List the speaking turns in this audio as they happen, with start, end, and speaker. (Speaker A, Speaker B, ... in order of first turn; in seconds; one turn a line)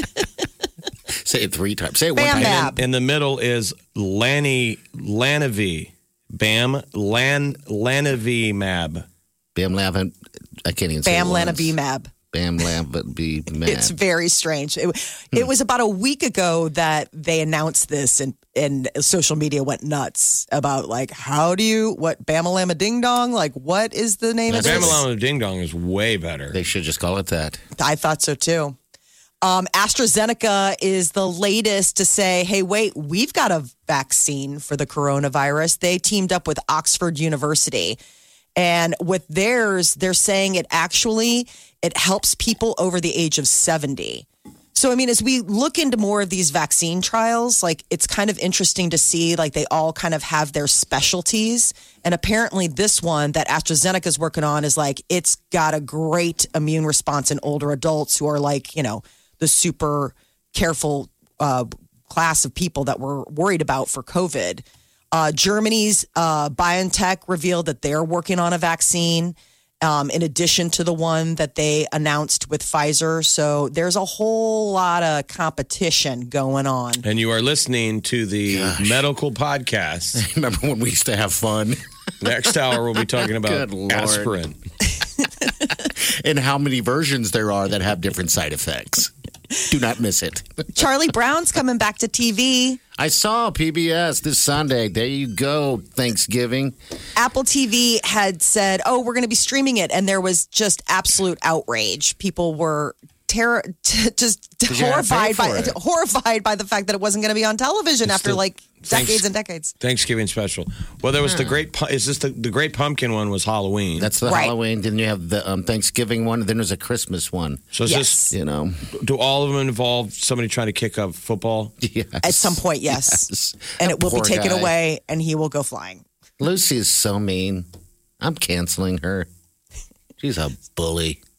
Speaker A: 1.2-2.8
Speaker B: 2.1-2.8
Speaker C: 2.3-9.0
Speaker A: 9.5-11.8
Speaker B: 11.0-12.1
Speaker A: 12.3-13.9
Speaker B: 13.7-25.0
Speaker A: 24.5-25.0
Speaker C: 24.6-26.6
Speaker A: 26.5-27.6
Speaker B: 27.8-28.7
Speaker B: 29.4-38.0
Speaker B: 38.5-77.0
Speaker C: 77.0-80.2
Speaker A: 78.5-79.0
Speaker A: 80.1-81.8
Speaker C: 82.2-84.5
Speaker A: 83.2-84.3
Speaker A: 85.8-89.1
Speaker A: 89.7-90.8
Speaker B: 90.7-92.8
Speaker A: 93.0-96.8
Speaker B: 97.2-109.7
Speaker A: 104.7-105.8
Speaker C: 108.0-109.3
Speaker C: 109.8-114.1
Speaker A: 111.2-111.6
Speaker A: 114.0-117.8
Speaker B: 114.2-114.5
Speaker C: 117.7-118.3
Speaker B: 117.8-118.3
Speaker A: 118.3-118.9
Speaker C: 119.0-121.7
Speaker A: 121.8-124.7
Speaker B: 122.2-126.0
Speaker A: 126.4-127.7
Speaker A: 128.2-129.3
Speaker A: 130.2-131.2